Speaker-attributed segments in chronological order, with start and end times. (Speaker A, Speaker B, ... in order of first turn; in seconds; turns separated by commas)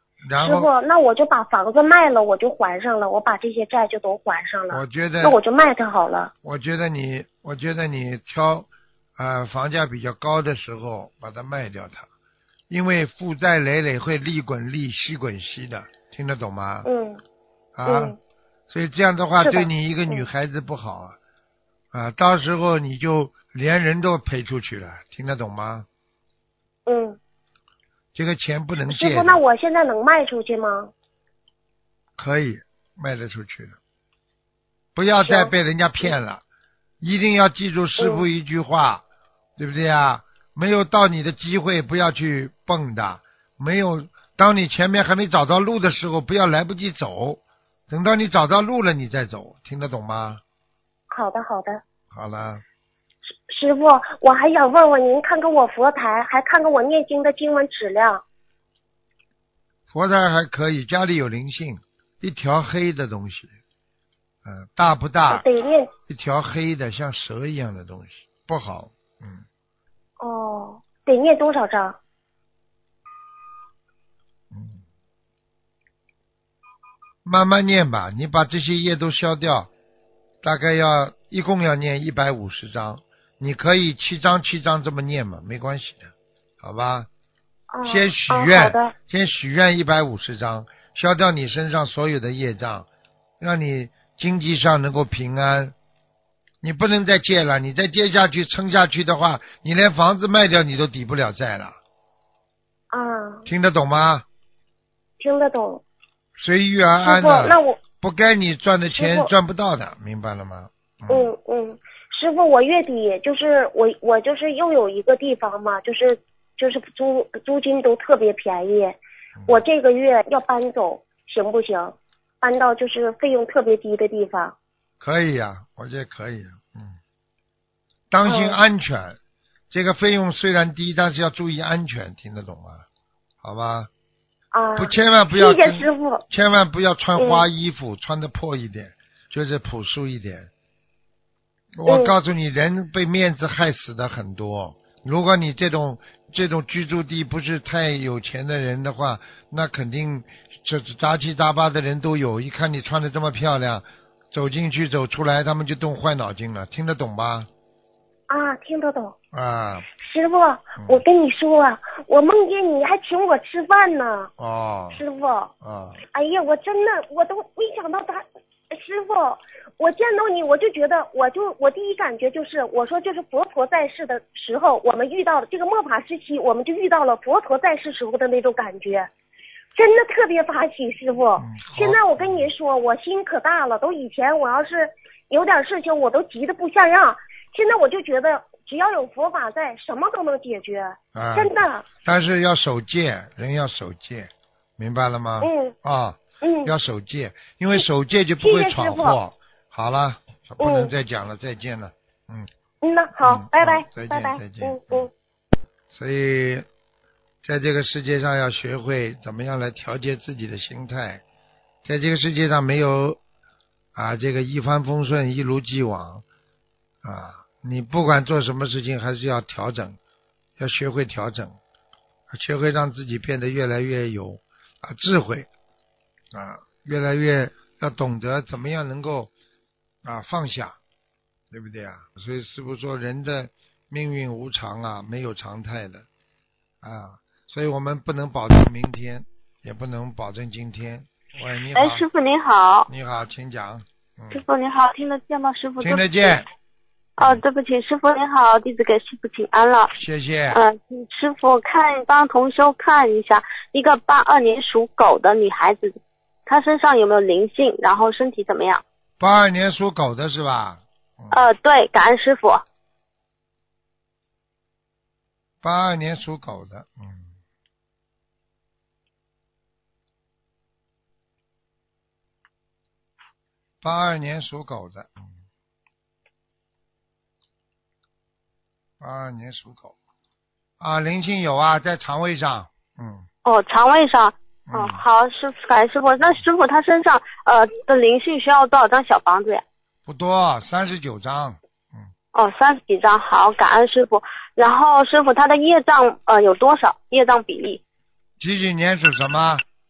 Speaker A: 0.2-0.7, Speaker B: 0.4-6.3, Speaker A: 4.7-5.4, Speaker A: 6.4-12.1, Speaker A: 12.7-16.9, Speaker B: 16.8-17.2, Speaker A: 17.8-18.1, Speaker B: 17.9-18.1, Speaker A: 18.7-21.1, Speaker B: 19.4-20.3, Speaker A: 21.9-25.9, Speaker B: 26.9-27.2, Speaker A: 28.1-29.4, Speaker B: 28.9-30.9, Speaker A: 32.2-33.8, Speaker A: 34.9-36.4, Speaker B: 35.2-36.1, Speaker A: 37.0-39.0, Speaker B: 38.0-38.2, Speaker A: 39.6-50.4, Speaker B: 51.1-51.8, Speaker A: 52.1-52.6, Speaker B: 53.5-58.2, Speaker A: 59.9-63.5, Speaker A: 64.4-65.4, Speaker B: 65.3-65.9, Speaker A: 66.1-69.4, Speaker B: 70.2-72.0, Speaker A: 74.5-74.8, Speaker A: 77.2-79.7, Speaker A: 80.4-87.1, Speaker B: 87.7-88.9, Speaker A: 87.8-92.8, Speaker A: 93.4-95.7, Speaker A: 96.6-101.8, Speaker B: 102.9-103.5, Speaker A: 103.5-104.2, Speaker B: 105.2-105.8, Speaker A: 106.3-111.3, Speaker B: 107.0-107.8, Speaker B: 108.9-109.3, Speaker B: 111.1-124.5, Speaker A: 119.4-119.6, Speaker A: 125.0-127.0, Speaker A: 128.1-129.2, Speaker B: 128.2-128.6, Speaker A: 129.7-132.8, Speaker A: 133.4-133.9, Speaker B: 134.5-136.2, Speaker A: 134.8-140.5, Speaker B: 137.2-137.4, Speaker A: 141.8-157.5, Speaker B: 141.8-142.1, Speaker B: 158.3-159.1, Speaker A: 159.3-159.9, Speaker B: 160.0-164.3, Speaker A: 164.4-165.0, Speaker B: 164.9-165.5, Speaker A: 165.6-166.0, Speaker B: 166.1-179.1, Speaker B: 179.7-191.9, Speaker A: 181.4-182.5, Speaker A: 191.1-202.5, Speaker B: 195.4-195.7, Speaker B: 196.4-196.7, Speaker B: 198.4-199.2, Speaker B: 200.6-200.9, Speaker B: 202.8-205.1, Speaker A: 203.2-205.1, Speaker A: 205.9-206.7, Speaker A: 207.4-211.2, Speaker A: 211.8-213.2, Speaker A: 213.9-216.2, Speaker A: 217.0-220.0, Speaker A: 220.6-221.6, Speaker A: 222.3-225.5, Speaker A: 226.3-229.3, Speaker A: 230.0-230.8, Speaker A: 231.5-236.1, Speaker A: 236.8-242.0, Speaker C: 241.7-242.9, Speaker A: 242.9-244.4, Speaker C: 244.3-246.4, Speaker A: 245.8-246.4, Speaker C: 247.2-249.9, Speaker A: 249.9-250.6, Speaker C: 250.5-258.8, Speaker A: 259.2-261.4, Speaker C: 261.3-262.6, Speaker A: 265.6-267.3, Speaker A: 273.8-275.3, Speaker A: 279.0-279.9, Speaker A: 280.8-283.2, Speaker C: 283.4-289.6, Speaker A: 284.7-285.0, Speaker A: 290.1-292.1, Speaker C: 292.3-297.8, Speaker A: 298.4-299.6